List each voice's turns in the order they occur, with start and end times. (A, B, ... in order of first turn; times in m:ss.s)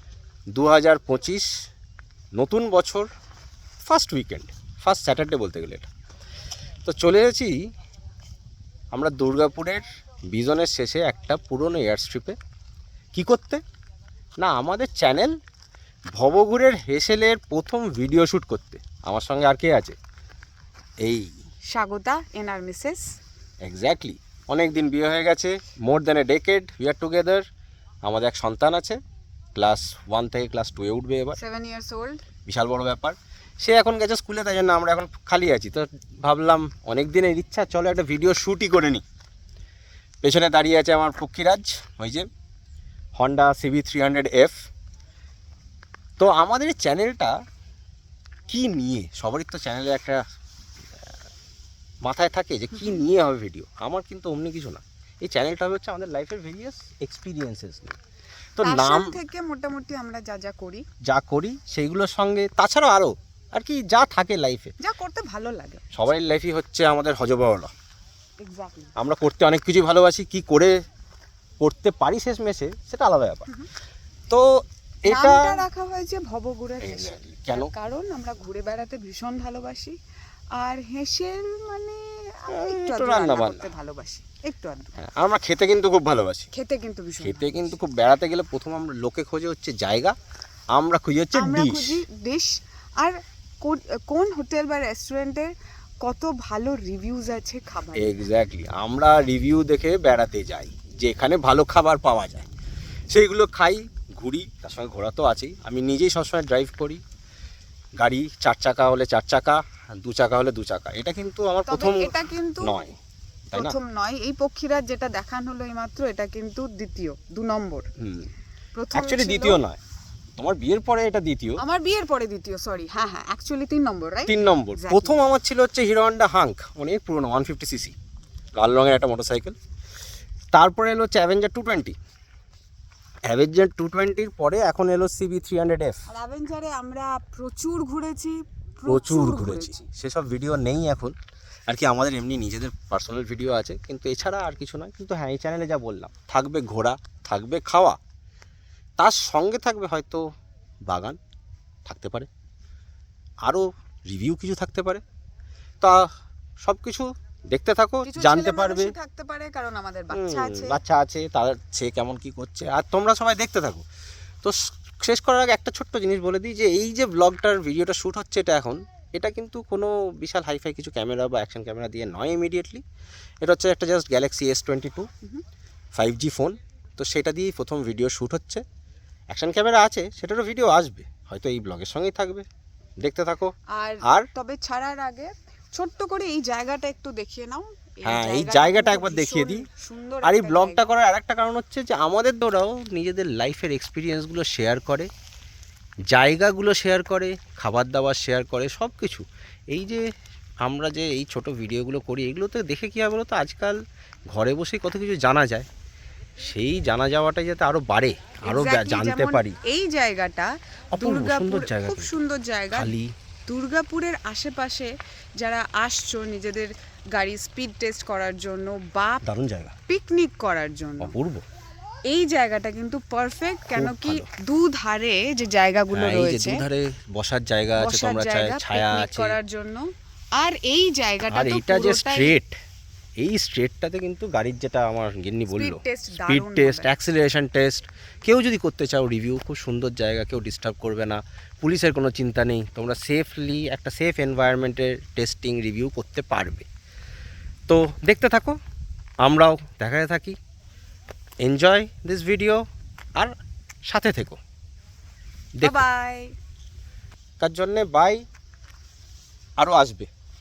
0:00.5-0:01.5 A
0:02.4-0:03.1 A
0:03.8-0:05.9 A
0:06.8-0:07.5 A
0:08.9-0:12.4 A
0:13.1-0:13.6 A
0:14.4-0:15.4 A
0:16.1-0:20.0 A
0:21.0-0:21.4 A
0:21.7-0:23.0 B
0:23.6-0:27.4 A
0:28.0-0:29.0 A
0:29.5-0:31.4 A
0:31.4-0:32.2 B
0:32.5-0:39.0 A
0:40.2-0:42.3 A
0:43.2-0:44.5 A
0:46.2-0:47.3 A
0:48.5-0:50.2 A
0:52.0-0:58.0 A
0:52.7-0:53.0 B
0:58.6-0:59.2 A
0:58.6-1:00.8 B
1:01.0-1:04.7 A
1:04.8-1:05.8 B
1:05.9-1:07.7 A
1:08.4-1:08.9 B
1:09.0-1:10.7 A
1:11.6-1:13.5 A
1:15.0-1:15.6 A
1:15.0-1:20.0 B
1:16.8-1:17.7 A
1:20.6-1:24.9 B
1:22.5-1:23.7 A
1:25.0-1:26.5 A
1:26.5-1:27.7 B
1:27.2-1:30.1 A
1:30.7-1:32.0 A
1:31.3-1:35.5 B
1:36.0-1:38.2 B
1:38.0-1:42.5 A
1:43.1-1:47.0 A
1:48.0-1:53.0 A
1:51.7-1:52.7 B
1:53.5-1:53.8 A
1:53.5-1:57.9 B
1:58.0-1:58.3 A
1:58.7-1:59.6 B
1:58.9-1:59.8 A
2:00.4-2:01.6 A
2:01.6-2:05.2 B
2:04.3-2:07.9 A
2:08.6-2:09.6 A
2:10.5-2:12.0 A
2:13.3-2:16.0 A
2:16.1-2:19.8 B
2:18.8-2:21.1 A
2:21.7-2:28.0 A
2:29.0-2:30.2 A
2:30.9-2:31.2 A
2:31.8-2:32.3 A
2:33.4-2:35.0 A
2:35.8-2:36.1 A
2:36.6-2:38.9 A
2:38.0-2:40.8 B
2:40.1-2:43.8 A
2:44.4-2:52.8 A
2:53.4-2:55.1 A
2:56.0-2:58.6 A
2:59.3-3:02.4 A
3:03.0-3:03.5 A
3:03.7-3:10.9 B
3:08.0-3:09.6 A
3:10.2-3:15.1 A
3:16.1-3:20.0 A
3:20.6-3:23.8 A
3:24.3-3:25.7 A
3:26.4-3:29.6 A
3:28.4-3:32.9 B
3:30.9-3:32.1 A
3:32.7-3:33.1 A
3:33.5-3:39.2 B
3:39.2-3:39.7 A
3:39.9-3:41.1 B
3:41.0-3:41.4 A
3:42.1-3:46.6 B
3:43.7-3:44.3 A
3:45.9-3:49.4 A
3:47.8-3:52.4 B
3:51.3-3:52.5 A
3:53.2-4:06.7 A
3:55.5-3:56.9 B
4:07.7-4:08.6 A
4:09.2-4:10.4 A
4:11.4-4:12.6 A
4:13.8-4:14.4 A
4:15.6-4:15.8 A
4:15.6-4:16.3 B
4:17.4-4:18.2 A
4:19.6-4:20.1 A